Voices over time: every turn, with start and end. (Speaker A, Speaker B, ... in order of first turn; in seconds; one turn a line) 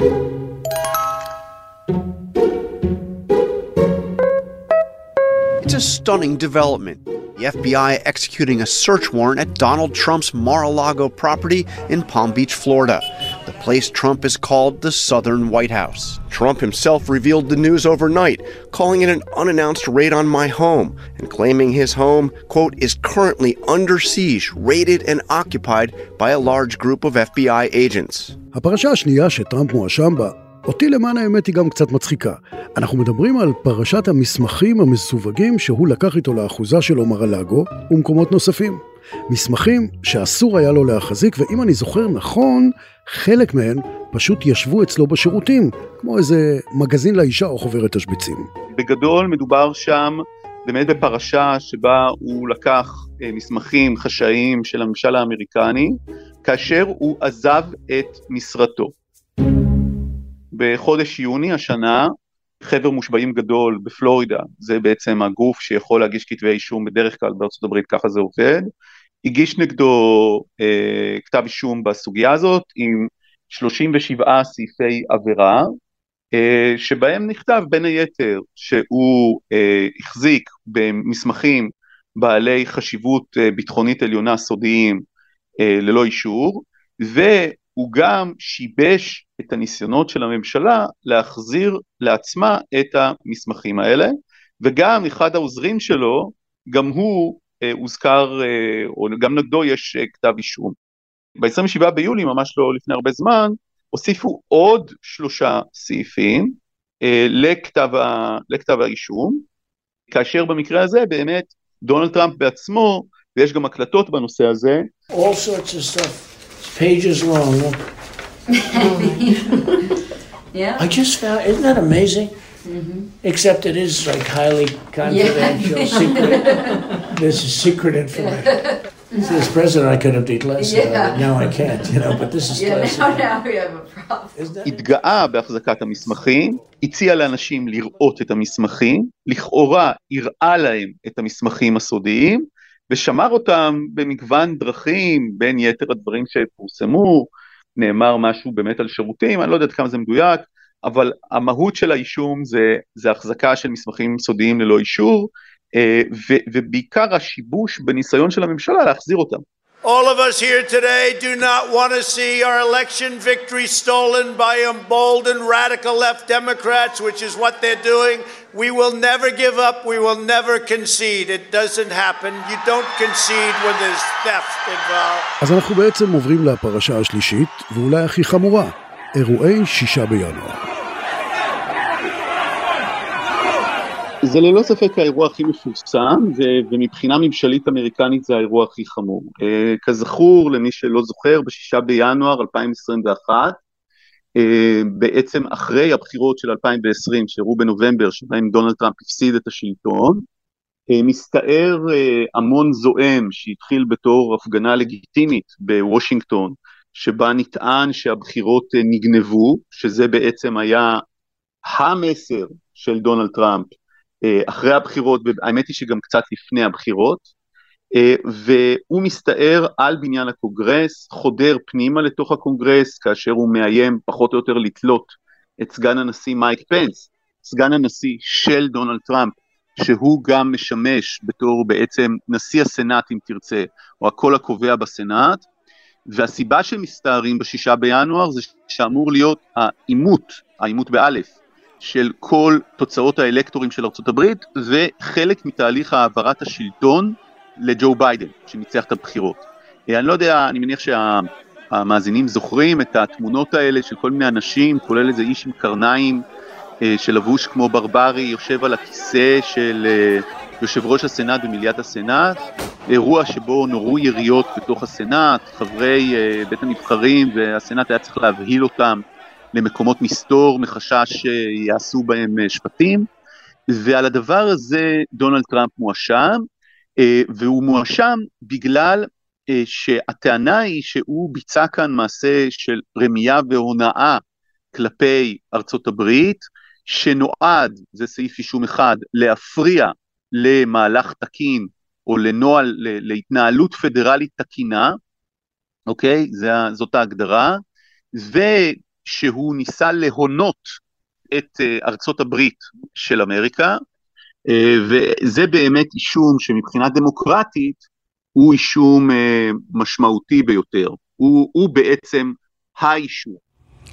Speaker A: 5.6-28.4
Speaker B: 28.5-48.5
Speaker C: 48.7-58.9
Speaker C: 60.5-68.7
Speaker C: 69.2-75.7
Speaker C: 76.3-85.0
Speaker C: 85.6-100.8
Speaker C: 101.4-109.4
Speaker C: 110.1-114.9
Speaker D: 115.1-117.8
Speaker E: 118.6-119.6
Speaker E: 120.5-120.8
Speaker D: 120.8-122.3
Speaker E: 122.7-123.1
Speaker D: 123.2-128.6
Speaker E: 125.0-127.0
Speaker E: 128.1-129.4
Speaker D: 129.2-133.3
Speaker E: 130.6-131.5
Speaker E: 132.5-134.4
Speaker D: 134.4-134.8
Speaker C: 134.7-159.4
Speaker F: 159.8-175.3
Speaker B: 175.4-180.6
Speaker C: 184.2-193.6
Speaker C: 194.4-200.2
Speaker C: 200.9-211.0
Speaker C: 211.7-217.3
Speaker C: 217.9-235.4
Speaker C: 236.1-256.2
Speaker C: 256.8-269.0
Speaker C: 269.5-273.1
Speaker C: 273.7-276.5
Speaker C: 277.0-284.2
Speaker C: 284.7-295.0
Speaker C: 295.9-297.6
Speaker C: 298.1-300.8
Speaker C: 301.3-303.8
Speaker C: 304.5-307.8
Speaker C: 308.4-313.4